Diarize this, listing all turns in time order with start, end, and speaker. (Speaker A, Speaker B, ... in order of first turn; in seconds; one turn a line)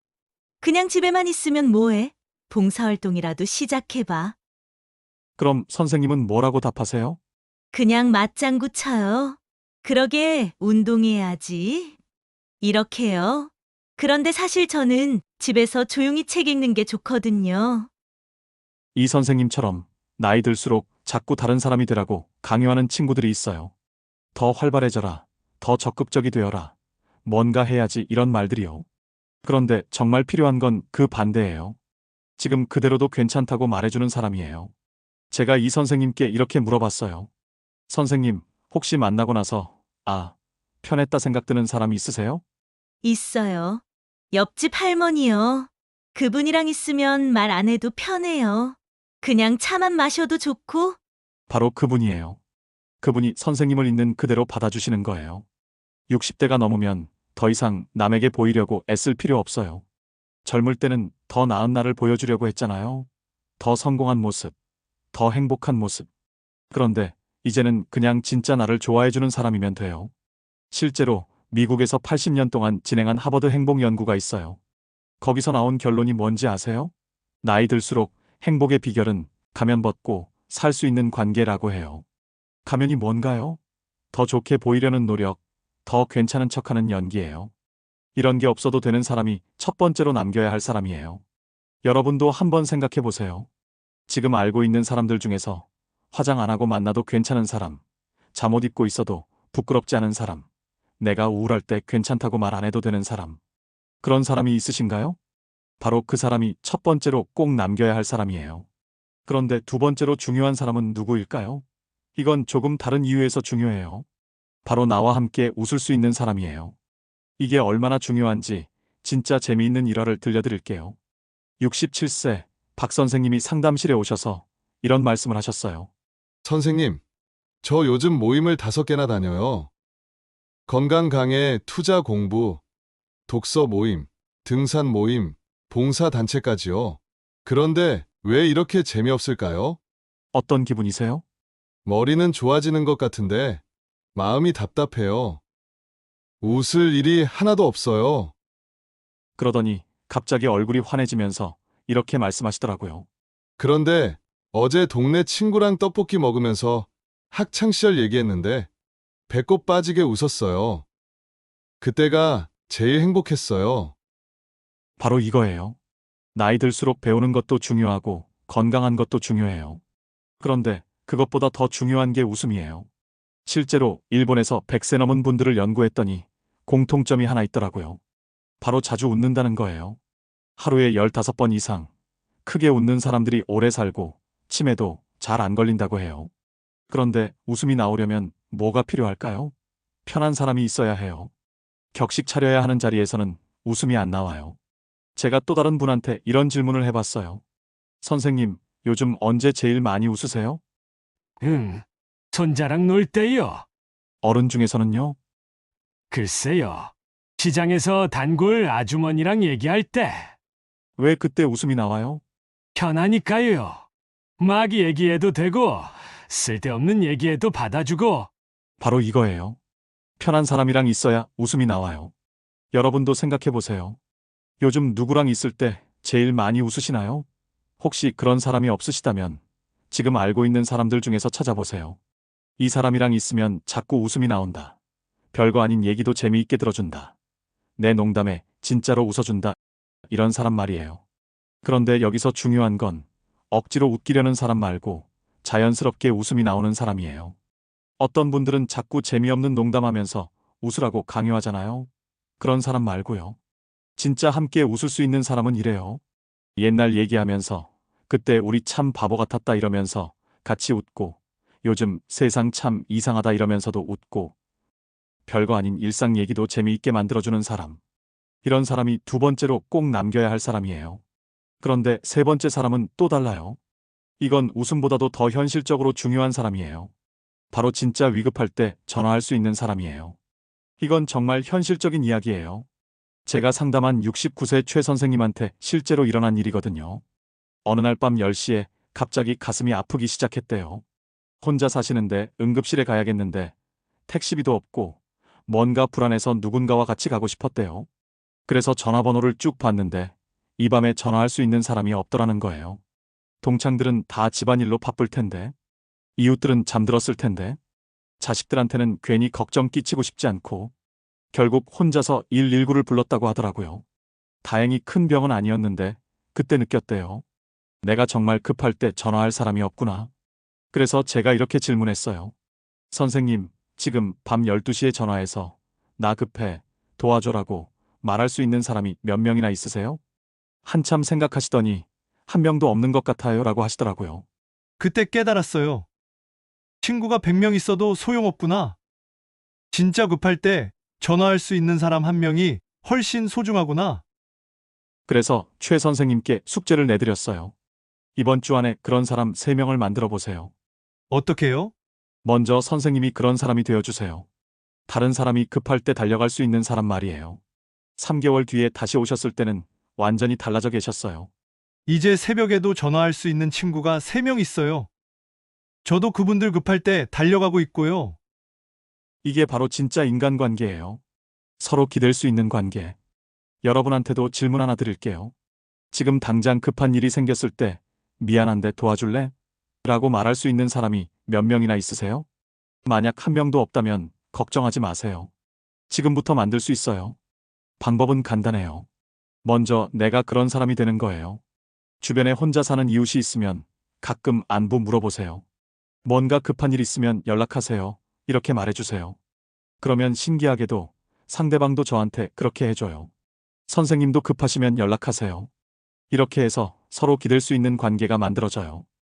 Speaker A: 0.6-4.3
Speaker B: 5.4-7.2
Speaker A: 7.7-12.0
Speaker A: 12.6-17.9
Speaker B: 18.9-23.7
Speaker B: 24.3-26.7
Speaker B: 27.2-28.9
Speaker B: 29.4-31.8
Speaker B: 32.4-34.7
Speaker B: 35.3-37.3
Speaker B: 37.9-42.4
Speaker A: 43.0-51.0
Speaker B: 51.5-52.4
Speaker B: 53.0-55.5
Speaker B: 56.1-59.8
Speaker B: 60.5-63.1
Speaker B: 63.6-64.5
Speaker B: 65.1-66.1
Speaker B: 66.7-70.1
Speaker B: 70.7-74.6
Speaker B: 75.2-76.9
Speaker B: 77.4-82.0
Speaker B: 82.7-83.6
Speaker B: 84.1-87.5
Speaker B: 88.2-91.2
Speaker B: 91.8-93.5
Speaker B: 94.1-97.8
Speaker B: 98.3-100.5
Speaker B: 101.0-103.4
Speaker B: 104.0-105.2
Speaker B: 105.8-108.7
Speaker B: 109.3-111.6
Speaker B: 112.2-114.0
Speaker B: 114.7-116.8
Speaker B: 117.4-121.0
Speaker B: 121.6-125.9
Speaker C: 126.5-127.0
Speaker C: 127.6-129.7
Speaker C: 130.7-132.6
Speaker C: 133.3-139.8
Speaker B: 140.3-141.2
Speaker C: 141.9-143.6
Speaker C: 144.2-145.4
Speaker C: 146.4-148.3
Speaker B: 149.4-153.1
Speaker C: 153.6-158.7
Speaker C: 159.3-160.9
Speaker C: 161.8-163.9
Speaker B: 165.0-165.8
Speaker B: 166.3-169.8
Speaker B: 170.4-172.9
Speaker B: 173.5-178.0
Speaker B: 178.6-180.0
Speaker B: 180.6-181.9
Speaker B: 182.4-186.3
Speaker B: 186.9-189.5
Speaker B: 190.1-191.3
Speaker B: 191.9-194.6
Speaker B: 195.2-197.4
Speaker B: 198.0-200.6
Speaker D: 201.4-203.7
Speaker B: 204.2-205.2
Speaker D: 206.1-210.3
Speaker B: 211.0-212.2
Speaker D: 212.8-213.9
Speaker D: 214.4-218.3
Speaker B: 218.8-219.6
Speaker B: 220.2-222.1
Speaker B: 222.7-224.0
Speaker B: 224.6-227.3
Speaker B: 227.8-232.0
Speaker B: 232.6-234.8
Speaker B: 235.3-237.2
Speaker B: 237.8-239.6
Speaker B: 240.1-241.0
Speaker B: 241.6-247.4
Speaker B: 248.0-253.4
Speaker B: 254.0-256.0
Speaker B: 256.6-264.4
Speaker B: 265.3-267.8
Speaker B: 268.4-271.0
Speaker B: 271.6-273.6
Speaker B: 274.2-276.9
Speaker B: 277.5-280.2
Speaker B: 280.8-282.7
Speaker B: 283.3-287.0
Speaker B: 287.6-290.8
Speaker B: 291.4-293.6
Speaker B: 294.1-297.9
Speaker B: 298.5-302.8
Speaker B: 303.4-305.5
Speaker B: 306.2-307.6
Speaker B: 308.2-310.7
Speaker B: 311.3-313.8
Speaker B: 314.4-317.2
Speaker B: 317.8-320.1
Speaker B: 320.7-322.3
Speaker B: 322.9-330.0
Speaker B: 330.6-334.3
Speaker E: 334.8-335.9
Speaker E: 336.8-338.8
Speaker E: 339.7-344.0
Speaker B: 345.1-347.5
Speaker B: 348.2-350.5
Speaker E: 351.1-351.7
Speaker B: 352.2-354.3
Speaker B: 354.9-357.4
Speaker B: 358.0-361.3
Speaker E: 361.9-364.9
Speaker E: 365.9-368.2
Speaker B: 369.2-371.0
Speaker B: 371.6-373.0
Speaker B: 373.6-375.3
Speaker B: 375.9-379.3
Speaker B: 379.8-382.2
Speaker B: 382.9-385.3
Speaker B: 385.9-387.2
Speaker B: 387.8-388.9
Speaker B: 389.4-391.4
Speaker B: 392.0-395.4
Speaker B: 396.1-399.2
Speaker B: 399.8-403.1
Speaker B: 403.7-405.5
Speaker B: 406.1-408.9